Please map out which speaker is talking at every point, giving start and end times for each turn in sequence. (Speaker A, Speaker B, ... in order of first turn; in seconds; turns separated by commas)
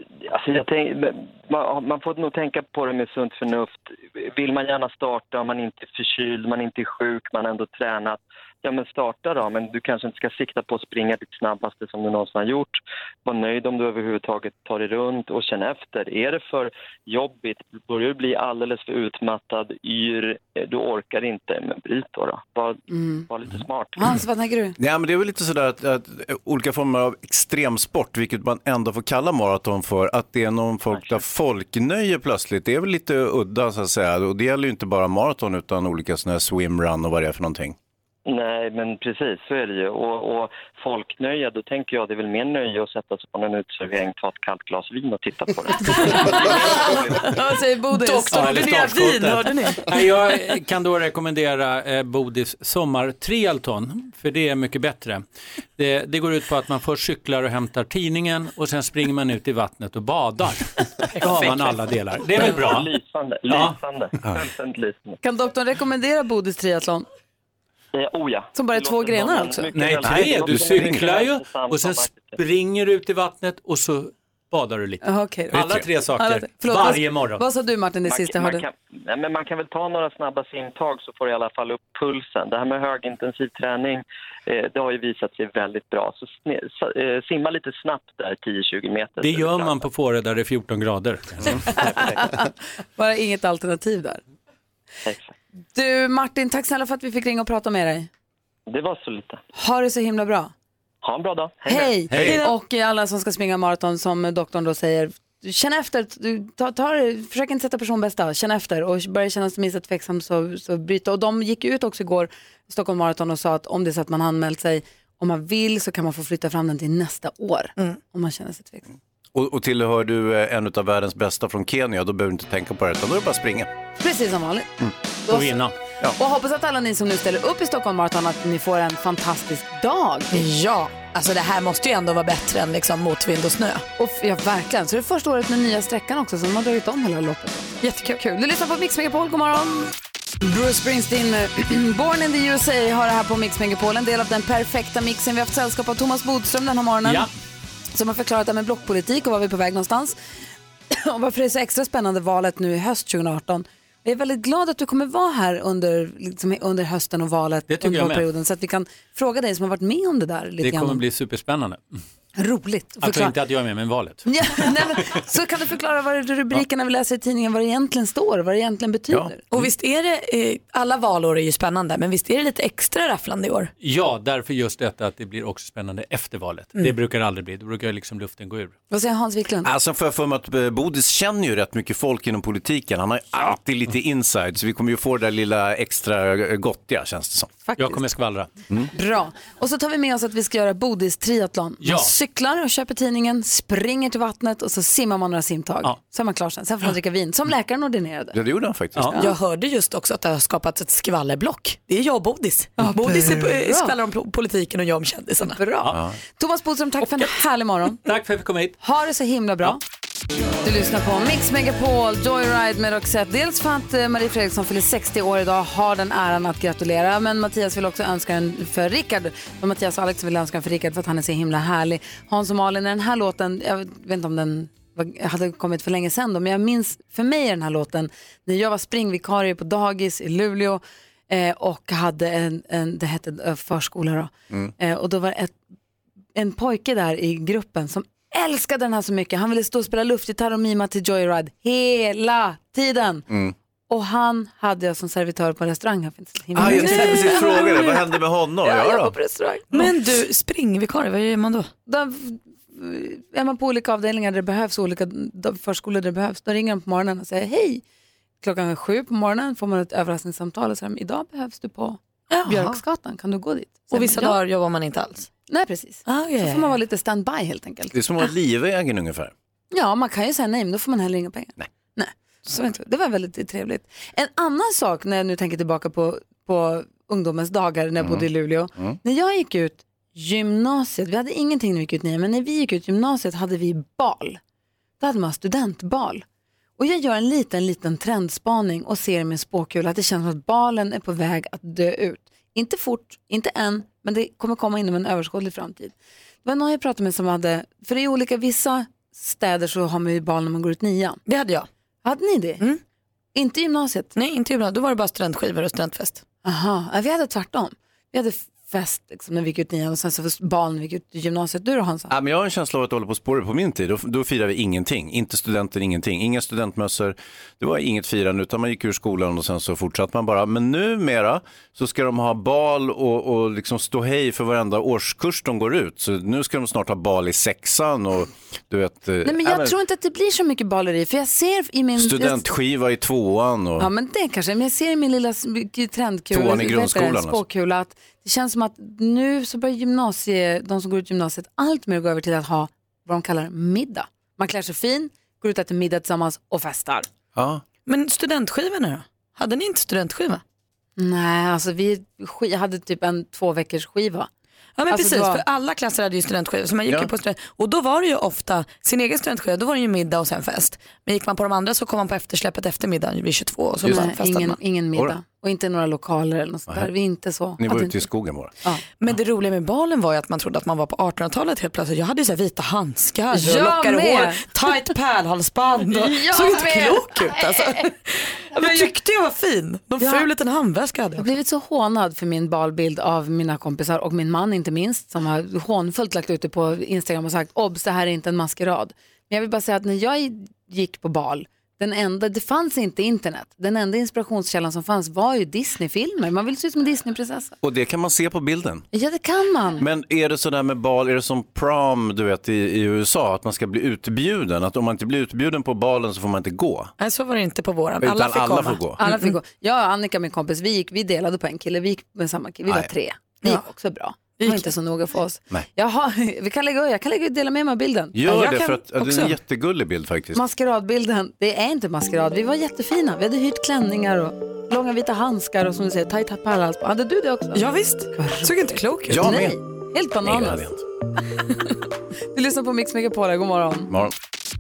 Speaker A: 0.2-24.1, Speaker B: 22.9-23.2, Speaker B: 24.0-24.8, Speaker C: 24.8-37.8, Speaker A: 38.2-47.3, Speaker B: 45.8-46.5, Speaker D: 46.4-47.2, Speaker B: 47.2-48.6, Speaker D: 47.9-50.2, Speaker E: 48.3-55.2, Speaker E: 55.8-62.9, Speaker B: 61.2-61.8, Speaker A: 62.3-65.2, Speaker E: 63.5-63.8, Speaker C: 64.2-64.5, Speaker B: 65.2-67.0, Speaker A: 67.9-72.4, Speaker B: 68.5-69.8, Speaker E: 69.7-77.4, Speaker C: 70.0-71.1, Speaker B: 75.0-78.6, Speaker C: 75.5-75.9, Speaker A: 78.0-89.8, Speaker E: 89.2-92.1, Speaker B: 91.7-92.4, Speaker B: 93.0-94.2, Speaker A: 95.0-95.3, Speaker B: 95.7-98.1, Speaker A: 98.7-99.4, Speaker B: 99.5-100.5, Speaker A: 101.0-102.0, Speaker B: 101.7-118.9, Speaker E: 102.1-102.4, Speaker D: 102.1-102.5, Speaker C: 119.3-123.7, Speaker B: 124.0-124.7, Speaker B: 125.3-130.4, Speaker E: 125.3-125.8, Speaker D: 130.3-133.8, Speaker B: 134.0-139.9, Speaker D: 137.8-138.2, Speaker B: 140.4-147.3, Speaker E: 147.0-147.3, Speaker B: 147.9-150.2, Speaker B: 150.9-161.0, Speaker E: 157.7-158.2, Speaker E: 160.6-161.9, Speaker B: 162.4-163.4, Speaker E: 163.0-164.8, Speaker B: 164.2-169.4, Speaker C: 169.1-169.6, Speaker D: 169.5-173.7, Speaker E: 173.8-178.7, Speaker B: 178.9-179.7, Speaker C: 179.6-187.6, Speaker B: 187.7-188.1, Speaker E: 187.8-188.5, Speaker B: 188.9-198.4, Speaker E: 191.8-192.2, Speaker C: 198.3-199.1, Speaker D: 199.2-205.6, Speaker B: 202.8-203.9, Speaker B: 205.4-208.0, Speaker E: 208.0-208.7, Speaker B: 208.8-209.8, Speaker B: 210.6-235.6, Speaker B: 236.3-243.2, Speaker C: 243.3-243.5, Speaker B: 243.9-247.9, Speaker C: 246.6-249.2, Speaker D: 246.6-248.0, Speaker B: 248.6-249.9, Speaker D: 249.7-251.7, Speaker B: 251.9-257.8, Speaker B: 258.4-264.4, Speaker D: 262.3-262.8, Speaker D: 263.9-265.3, Speaker B: 265.5-267.9, Speaker D: 266.1-266.7, Speaker C: 267.9-269.3, Speaker B: 269.7-284.4, Speaker C: 278.0-278.2, Speaker B: 285.0-286.2, Speaker B: 286.8-301.2, Speaker D: 301.3-301.7, Speaker B: 302.0-302.6, Speaker B: 303.3-304.1, Speaker D: 304.1-306.2, Speaker B: 306.4-312.1, Speaker C: 312.1-329.7, Speaker B: 329.2-332.4, Speaker C: 332.0-333.9, Speaker B: 333.8-347.1, Speaker C: 336.3-337.4, Speaker C: 347.3-347.6, Speaker D: 347.9-350.4, Speaker B: 351.0-354.3, Speaker D: 354.8-364.6, Speaker B: 354.9-355.4, Speaker B: 363.9-368.0, Speaker C: 367.6-368.5, Speaker D: 369.0-381.3, Speaker B: 373.3-374.9, Speaker B: 375.9-377.8, Speaker B: 378.6-378.9, Speaker B: 380.0-380.3, Speaker B: 381.2-397.5, Speaker C: 397.6-398.8, Speaker B: 398.9-399.8, Speaker C: 399.8-406.9, Speaker D: 407.0-409.3, Speaker C: 408.0-409.0, Speaker B: 409.0-419.3, Speaker D: 414.4-414.7, Speaker C: 418.1-420.4, Speaker D: 418.2-418.7, Speaker B: 420.3-430.6, Speaker D: 427.5-429.3, Speaker C: 429.1-429.6, Speaker C: 430.2-430.8, Speaker B: 432.3-433.9